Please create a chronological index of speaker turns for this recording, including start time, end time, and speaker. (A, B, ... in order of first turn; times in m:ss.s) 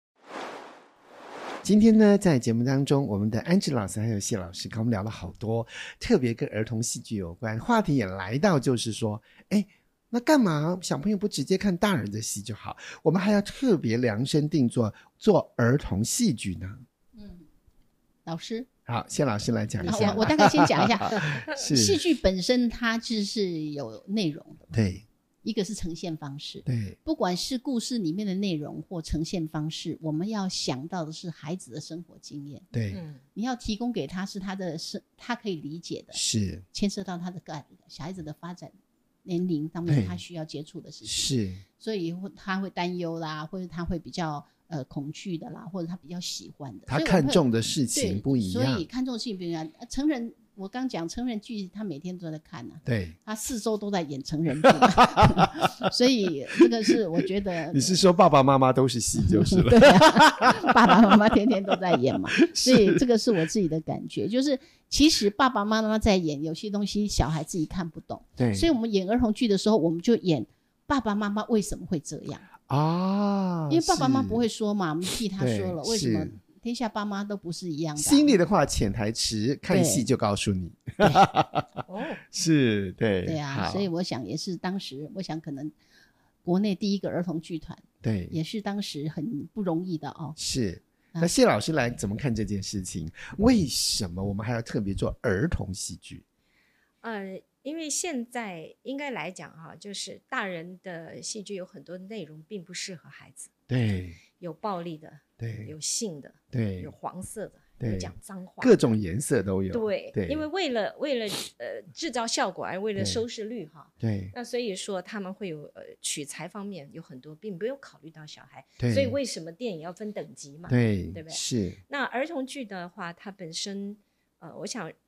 0:01.6-0:16.8 A
0:17.1-0:17.5 B
0:18.2-0:18.7 B
0:18.8-0:22.0 A
0:19.8-0:24.7 B
0:19.8-0:20.2 C
0:24.7-0:25.0 A
0:25.4-0:32.6 B
0:26.6-0:27.0 A
0:32.7-0:33.0 A
0:32.9-0:33.2 C
0:33.3-0:36.2 B
0:36.1-0:36.6 A
0:36.7-0:38.7 B
0:39.2-0:58.0 B
0:39.9-0:40.2 A
0:41.0-0:41.6 A
0:46.9-0:48.8 A
0:52.8-0:53.2 A
0:54.6-0:55.9 A
0:57.7-1:01.2 A
0:59.2-1:12.4 B
1:02.4-1:03.0 A
1:08.4-1:08.7 A
1:12.6-1:14.4 A
1:13.7-1:18.4 B
1:15.4-1:16.4 A
1:18.0-1:23.9 A
1:19.7-1:20.0 B
1:21.0-1:21.3 B
1:21.9-1:22.2 C
1:23.2-1:25.7 B
1:26.4-1:30.4 B
1:28.0-1:28.4 A
1:30.4-1:36.2 A
1:37.0-1:43.5 C
1:43.7-1:44.2 A
1:44.3-1:48.8 C
1:45.4-1:45.7 A
1:46.5-1:46.9 A
1:47.8-1:50.4 A
1:49.7-2:04.9 C
1:53.0-1:53.2 A
1:54.0-1:54.3 A
1:58.8-1:59.2 A
2:00.7-2:01.8 A